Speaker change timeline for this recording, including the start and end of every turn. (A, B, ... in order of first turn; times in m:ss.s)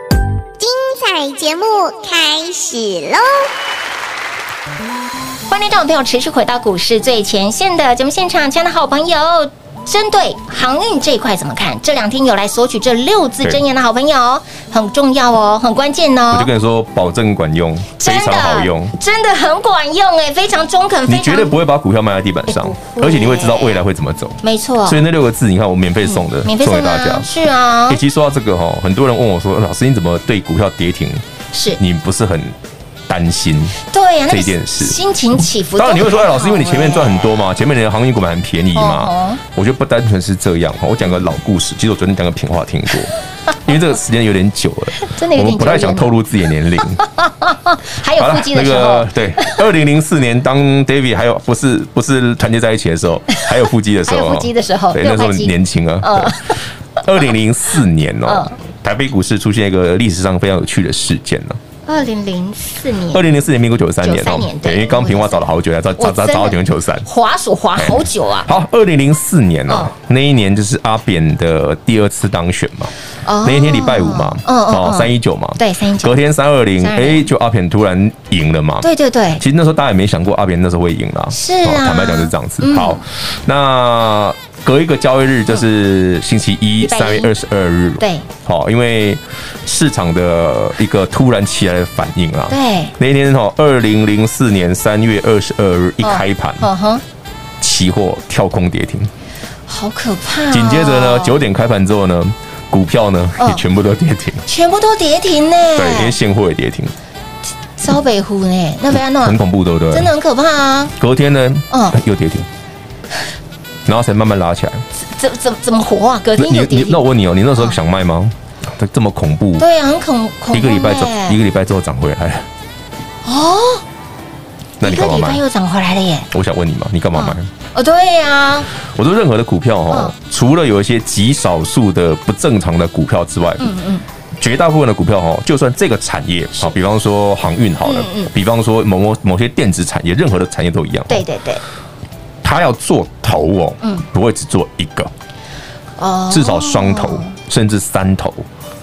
0:00.6-0:03.5 A
0:05.5-0:16.5 B
0:16.3-0:18.9 C
0:18.0-0:21.6 B
0:21.1-0:27.3 C
0:22.5-0:23.8 B
0:24.4-0:25.0 B
0:26.1-0:28.0 B
0:27.9-0:31.2 C
0:31.5-0:31.8 B
0:31.8-0:32.6 C
0:33.1-0:33.8 C
0:33.9-0:37.3 B
0:34.3-0:35.0 C
0:35.8-0:43.1 C
0:38.8-0:39.4 B
0:43.6-0:47.0 C
0:45.0-0:46.1 B
0:47.0-0:49.6 B
0:48.2-1:01.6 C
0:54.1-0:56.6 B
0:58.2-0:58.6 B
1:01.9-1:03.3 B
1:03.1-1:07.1 C
1:04.0-1:08.5 B
1:07.8-1:12.9 C
1:09.7-1:09.9 B
1:13.2-1:16.1 B
1:13.4-1:36.7 C
1:16.8-1:17.3 B
1:18.8-1:19.4 B
1:21.3-1:23.0 B
1:26.8-1:27.3 B
1:28.0-1:28.3 B
1:32.5-1:33.0 B
1:36.0-1:37.0 B
1:37.6-1:39.1 C
1:39.7-1:41.4 B
1:40.5-1:44.4 C
1:43.4-1:43.6 B
1:44.5-1:46.2 B
1:45.8-1:46.9 C
1:47.8-1:49.4 B
1:48.9-1:50.1 C
1:49.9-1:50.9 B
1:51.0-1:52.5 C
1:51.7-1:52.0 B
1:53.9-1:54.8 C
1:55.0-1:57.0 B
1:56.4-1:59.6 C
1:59.6-2:01.4 B
2:00.5-2:02.5 C
2:03.2-2:03.8 B
2:04.8-2:05.4 C
2:04.8-2:06.3 B
2:06.3-2:07.5 C
2:07.1-2:08.7 B
2:08.9-2:13.7 C
2:13.6-2:14.0 B
2:14.4-2:21.2 C
2:17.8-2:18.3 B
2:21.1-2:21.6 B
2:22.4-2:25.1 C
2:26.0-2:27.4 B
2:26.3-2:28.5 C